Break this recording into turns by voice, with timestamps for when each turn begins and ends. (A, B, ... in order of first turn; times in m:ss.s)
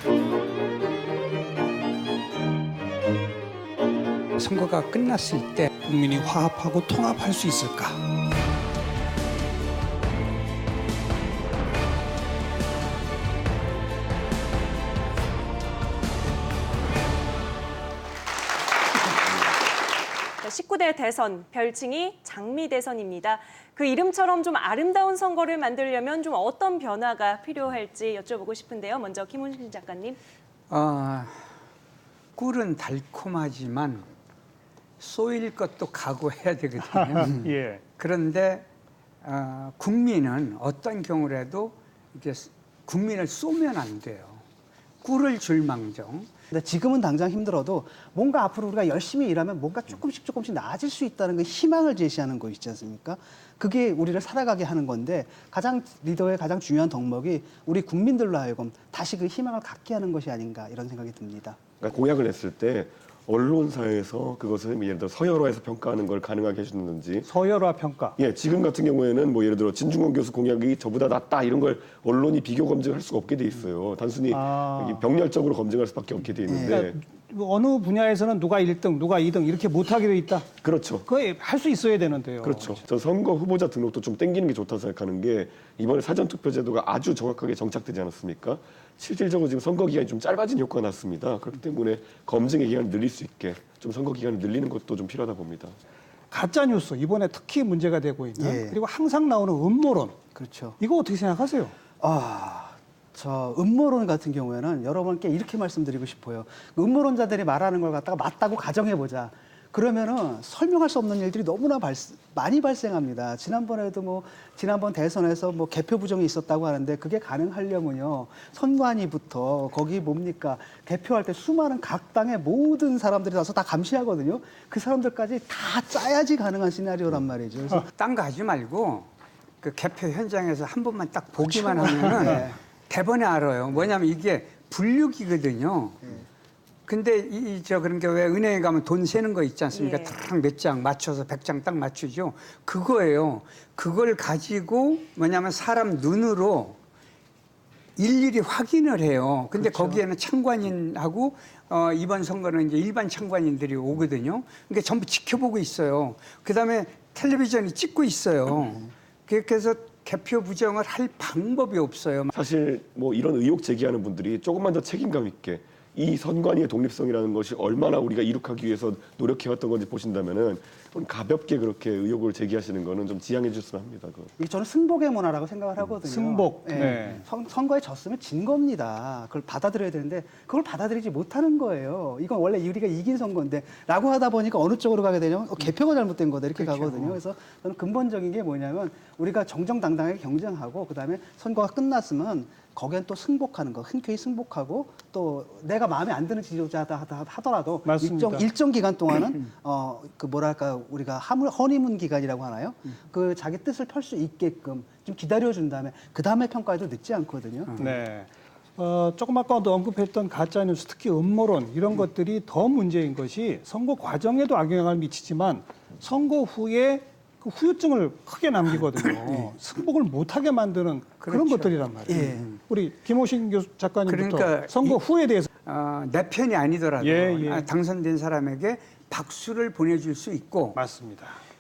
0:04.4-0:05.7 A
0:05.8-0:08.0 B
0:20.4-0:30.2 C
0:30.7-0:31.4 A
0:32.4-0:34.1 A
0:35.0-0:37.4 A
0:37.2-0:37.8 B
0:38.0-0:38.7 A
0:39.2-0:44.4 A
0:45.0-0:46.3 A
0:46.5-1:01.6 D
1:01.8-1:07.3 E
1:07.3-1:08.2 B
1:08.2-1:17.0 E
1:14.3-1:15.1 B
1:16.5-1:16.9 D
1:16.7-1:20.6 B
1:20.6-1:21.1 E
1:21.1-1:22.8 B
1:22.4-1:35.8 E
1:36.3-1:40.2 B
1:38.4-1:38.8 D
1:40.4-1:40.8 D
1:40.8-1:41.8 B
1:42.0-2:07.9 D
2:07.9-2:09.1 A
2:09.6-2:16.0 A
2:11.8-2:12.6 D
2:16.9-2:26.8 A
2:19.7-2:20.2 C
2:28.0-2:42.3 A
2:42.3-2:54.3 E
2:54.4-3:27.8 D
2:56.1-2:57.2 B
3:17.9-3:18.4 B
3:27.8-3:45.5 B
3:41.2-3:42.5 A
3:42.1-3:42.5 D
3:44.1-3:45.0 A
3:45.6-3:50.8 A
3:47.0-3:47.7 B
3:50.8-3:51.4 B